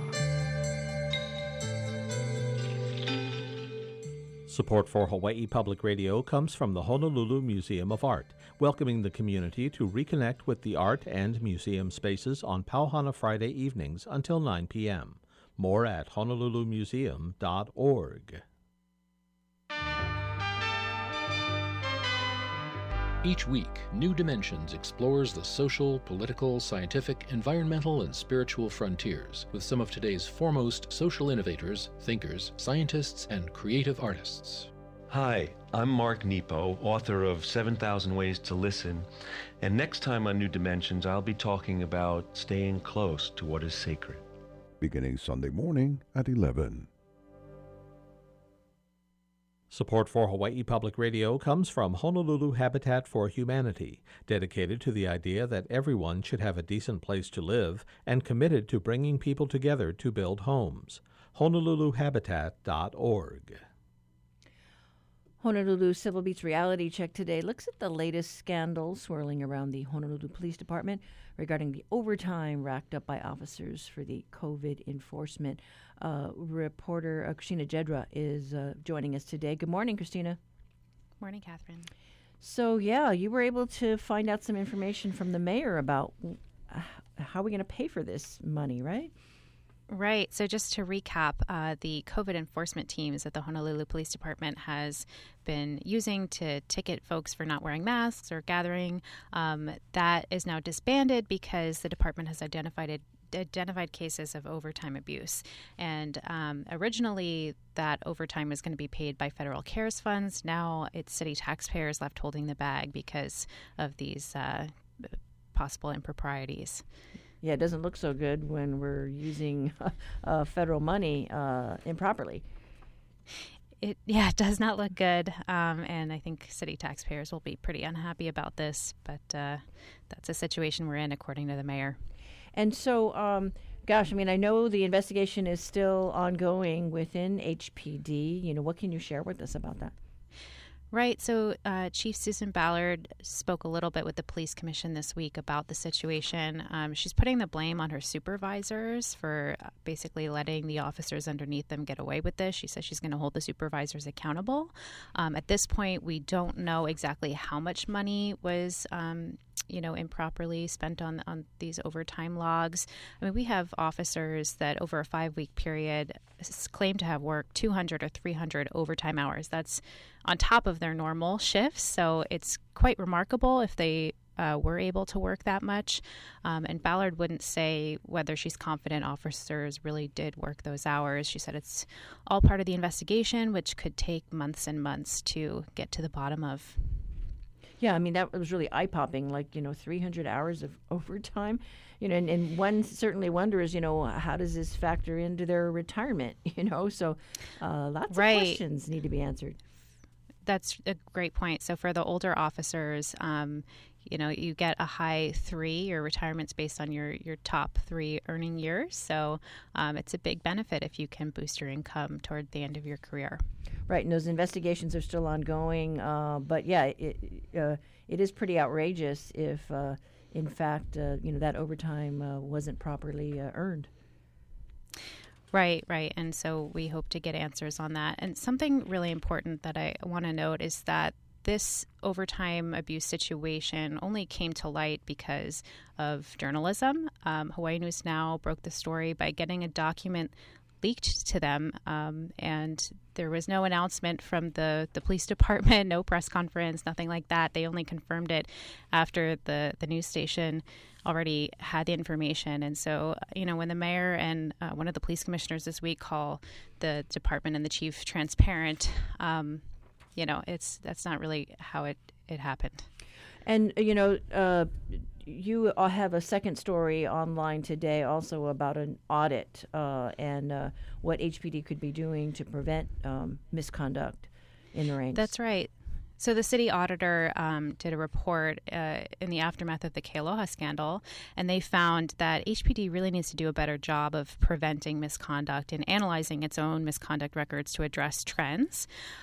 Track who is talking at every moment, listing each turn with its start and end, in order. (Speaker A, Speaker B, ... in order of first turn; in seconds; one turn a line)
Speaker A: 4.5-18.4
Speaker B: 23.2-34.7
Speaker C: 35.1-39.1
Speaker C: 39.6-44.2
Speaker D: 44.8-46.9
Speaker A: 49.7-63.6
Speaker E: 65.4-80.4
Speaker F: 81.2-81.9
Speaker E: 82.4-89.1
Speaker F: 89.9-116.8
Speaker E: 117.4-122.4
Speaker F: 123.8-132.0
Speaker E: 132.5-139.9
Speaker F: 140.9-187.0
Speaker E: 187.8-199.6
Speaker F: 198.1-198.6
Speaker F: 200.4-213.4
Speaker E: 213.9-223.9
Speaker F: 225.5-259.6
Speaker F: 260.1-262.9
Speaker E: 263.4-275.3
Speaker F: 275.1-288.9